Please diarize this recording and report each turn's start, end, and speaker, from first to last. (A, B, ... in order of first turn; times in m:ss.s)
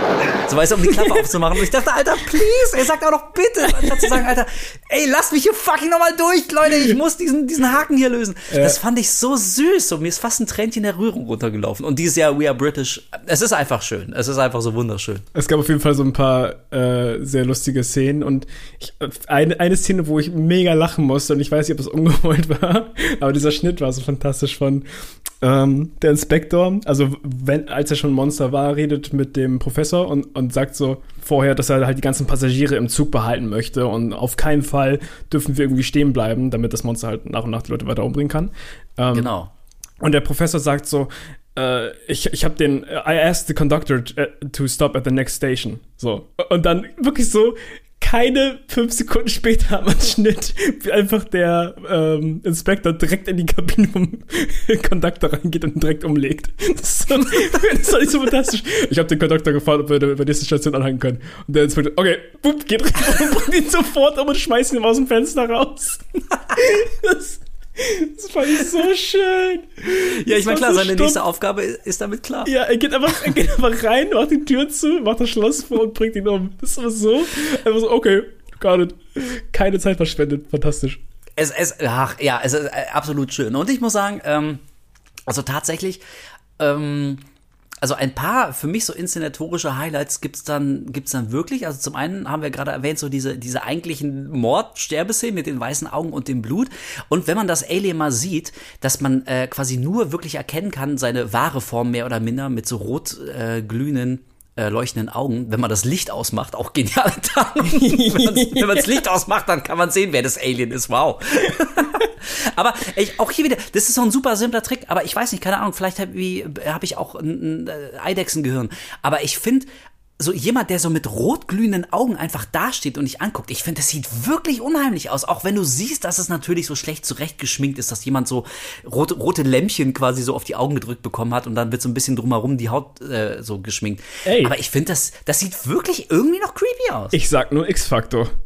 0:00.4-0:15.2 A
0:03.8-0:04.1 B
0:08.5-0:08.8 B
0:15.3-0:24.8 B
0:25.4-0:39.3 B
0:39.1-0:39.5 A
0:40.0-1:06.0 B
1:06.5-1:11.2 B
1:10.0-1:12.5 A
1:12.4-1:21.0 B
1:21.4-1:24.6 A
1:25.3-1:26.0 A
1:26.6-1:27.2 A
1:27.8-2:17.2 A
1:47.6-1:49.0 B
2:14.2-2:14.5 B
2:17.1-2:18.3 B